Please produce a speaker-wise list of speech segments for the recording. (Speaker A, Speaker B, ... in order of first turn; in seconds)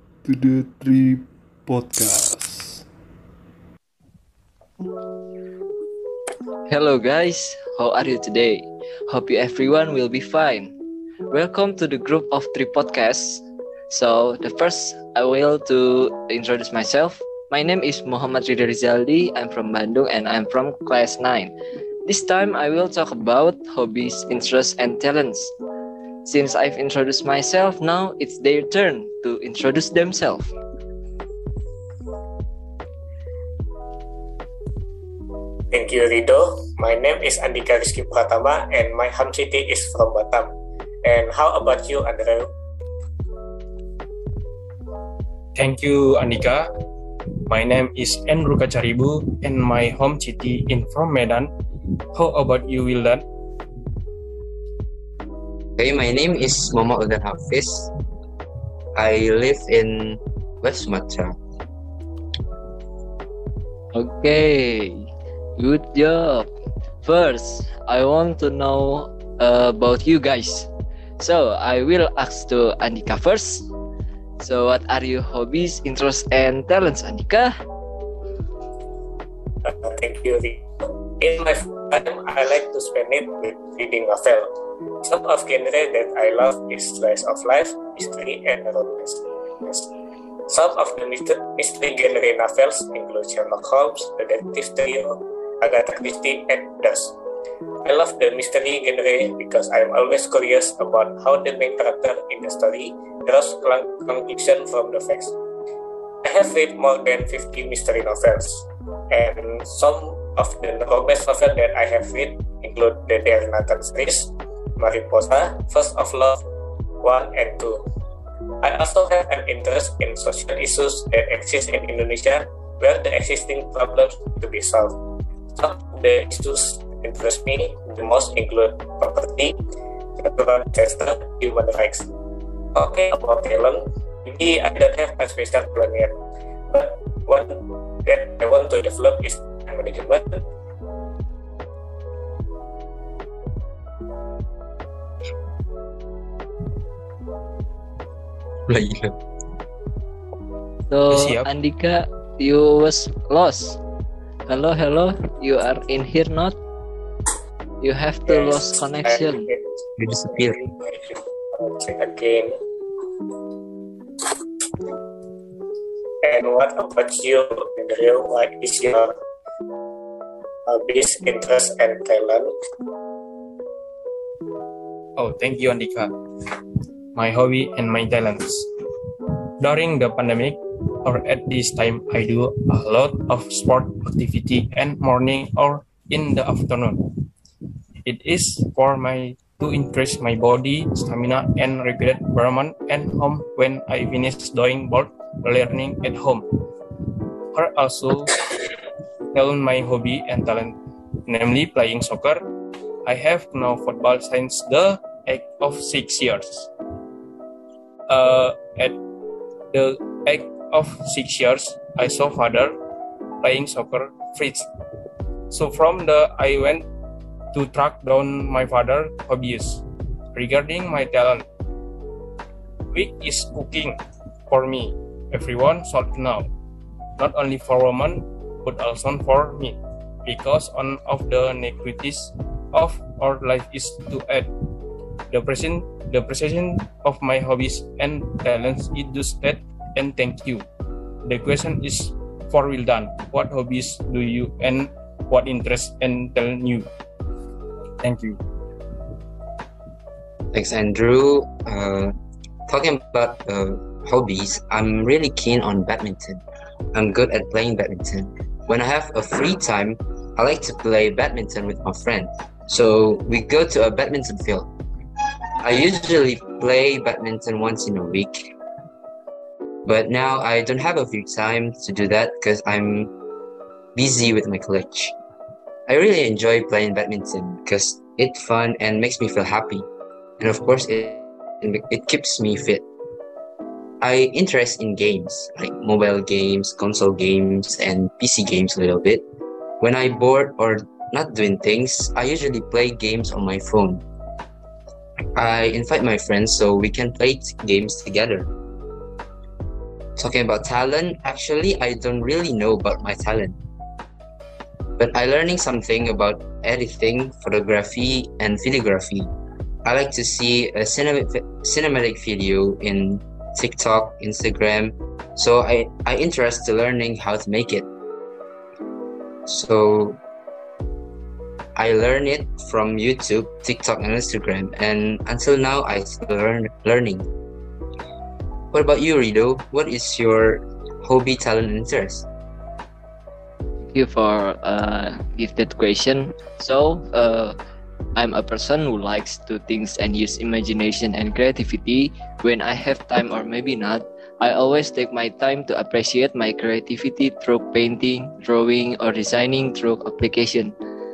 Speaker A: 0.2-2.9
Speaker B: 6.7-10.7, 11.3-21.5, 22.1-25.5, 26.2-30.5, 63.9-66.5, 67.0-73.7, 74.4-77.5, 150.9-153.8, 154.5-156.6, 157.8-159.5, 333.9-337.6, 338.2-350.7
Speaker C: 35.7-40.5, 41.0-42.5, 79.6-80.6, 81.2-84.5, 85.0-89.9, 90.5-97.2, 97.8-105.3, 106.2-116.4, 117.0-117.8, 118.6-125.0, 125.6-129.6, 130.2-132.1, 132.7-136.1, 136.7-140.4, 158.3-162.6, 166.2-169.1, 170.7-172.5
Speaker D: 45.5-46.7, 47.5-51.5, 52.1-53.2, 151.1-151.5, 175.2-176.1, 177.2-178.7, 179.6-187.1, 188.1-196.4, 197.5-198.4, 199.3-200.8, 201.3-202.4, 203.1-206.7, 208.1-209.0, 209.7-212.8, 213.4-214.7, 215.5-216.9, 217.5-221.5, 222.9-224.0, 224.5-226.5, 227.2-234.5, 235.3-240.7, 241.2-246.9, 248.0-248.4
Speaker E: 55.8-57.9, 59.0-61.4, 148.7-149.1, 160.0-160.6, 250.5-252.1, 252.7-256.4, 256.9-264.7, 265.6-268.5, 269.9-273.1, 273.9-275.1, 275.9-279.9, 280.4-282.9, 284.0-289.2, 289.8-294.0, 295.4-298.5, 300.2-303.6, 305.0-309.3, 309.9-317.9, 319.5-320.2, 321.8-327.3, 328.7-332.3